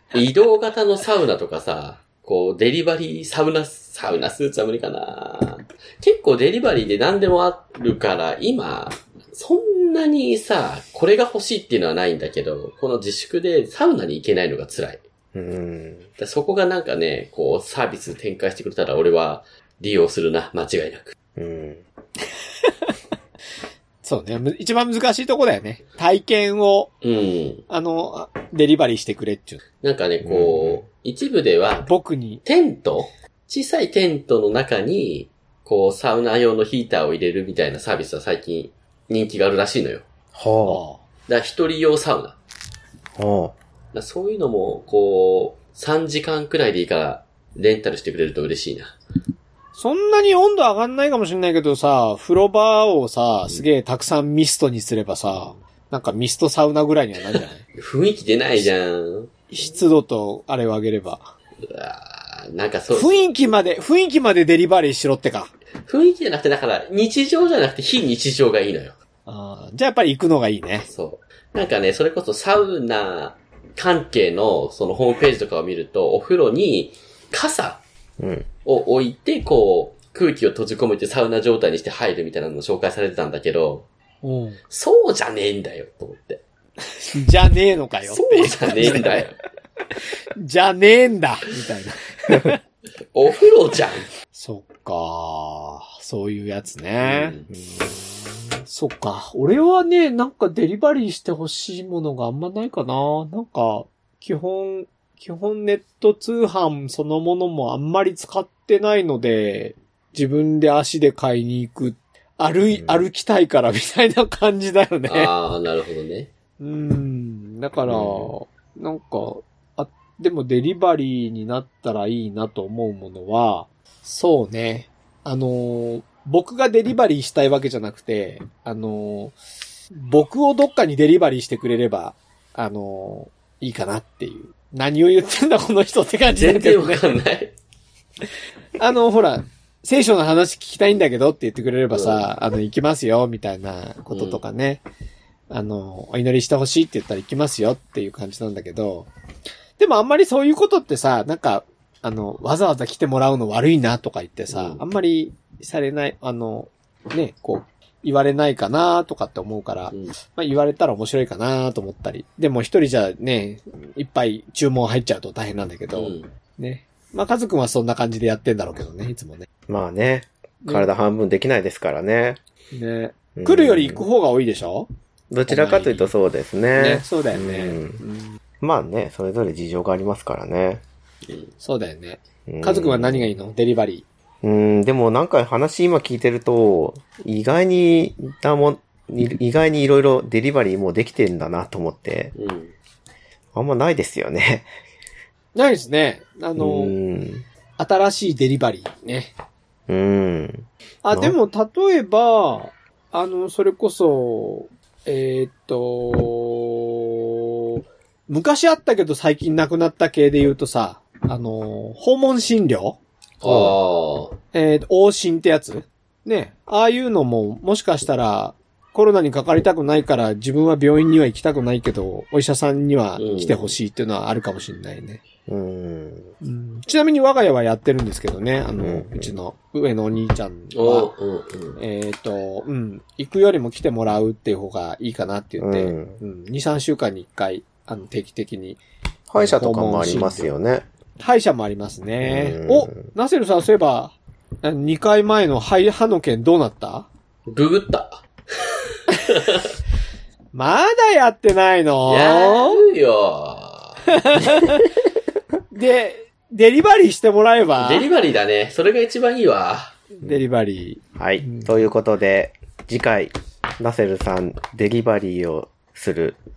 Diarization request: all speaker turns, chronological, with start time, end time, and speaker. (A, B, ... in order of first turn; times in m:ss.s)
0:00.1-0:15.0 A
0:15.3-0:16.0 B
0:16.2-0:21.1 A
0:21.4-0:21.8 B
0:22.6-0:22.9 C
0:24.0-0:26.9 C
0:27.0-0:27.6 A
0:27.7-0:29.6 C
0:29.8-0:31.9 A
0:30.2-0:30.8 B
0:31.8-0:32.4 C
0:32.4-0:40.0 A
0:40.3-0:40.8 B
0:40.7-0:41.0 C
0:41.3-0:42.4 A
0:43.2-0:43.5 B
0:43.9-0:48.9 A
0:49.8-0:57.6 C
0:57.8-0:59.3 A
0:59.5-1:01.3 C
1:01.6-1:03.2 A
1:02.9-1:05.5 C
1:05.8-1:08.9 A
1:09.3-1:10.9 C
1:10.9-1:17.8 A
1:18.2-1:18.5 B
1:18.6-1:23.8 A
1:24.2-1:24.6 C
1:24.7-1:26.4 A
1:27.0-1:29.3 C
1:28.1-1:29.4 A
1:30.4-1:32.6 C
1:33.1-1:34.1 A
1:34.3-1:37.4 C
1:37.0-1:37.5 A
1:37.6-1:38.0 B
1:38.6-1:55.3 C
1:55.1-1:56.3 A
1:56.6-2:09.3 C
1:57.9-1:58.3 A
2:09.9-2:17.0 C
2:16.3-2:17.5 A
2:18.8-2:24.8 C
2:21.9-2:22.2 A
2:24.1-2:24.4 A
2:25.5-2:29.1 C
2:29.8-2:49.5 C
2:34.5-2:34.8 A
2:45.9-2:46.3 A
2:49.7-2:52.4 B
2:50.6-2:50.9 C
2:52.7-2:54.9 C
2:53.3-2:54.0 B
2:55.3-2:58.0 B
2:55.5-2:56.1 C
2:56.8-2:58.4 C
2:58.6-3:00.8 B
3:01.2-3:01.5 A
3:01.6-3:04.0 C
3:02.5-3:03.3 B
3:04.4-3:12.3 B
3:12.3-3:12.7 A
3:13.5-3:14.7 B
3:15.5-3:16.9 C
3:16.6-3:17.4 B
3:17.8-3:19.3 C
3:19.9-3:21.4 B
3:21.0-3:33.0 C
3:33.4-3:34.4 A
3:33.4-3:33.8 B
3:34.5-3:45.2 C
3:43.2-3:43.8 A
3:45.5-3:46.3 B
3:46.4-3:51.1 C
3:48.8-3:49.3 B
3:50.7-3:51.8 A
3:51.8-3:58.8 C
3:55.6-3:56.2 B
3:59.3-4:00.8 B
3:59.4-4:00.5 C
4:01.2-4:07.1 C
4:02.2-4:03.0 B
4:07.5-4:09.7 A
4:10.5-4:12.8 C
4:12.1-4:14.6 A
4:14.1-4:14.8 C
4:15.7-4:18.1 C
4:17.8-4:19.9 A
4:20.2-4:21.8 C
4:21.2-4:26.4 B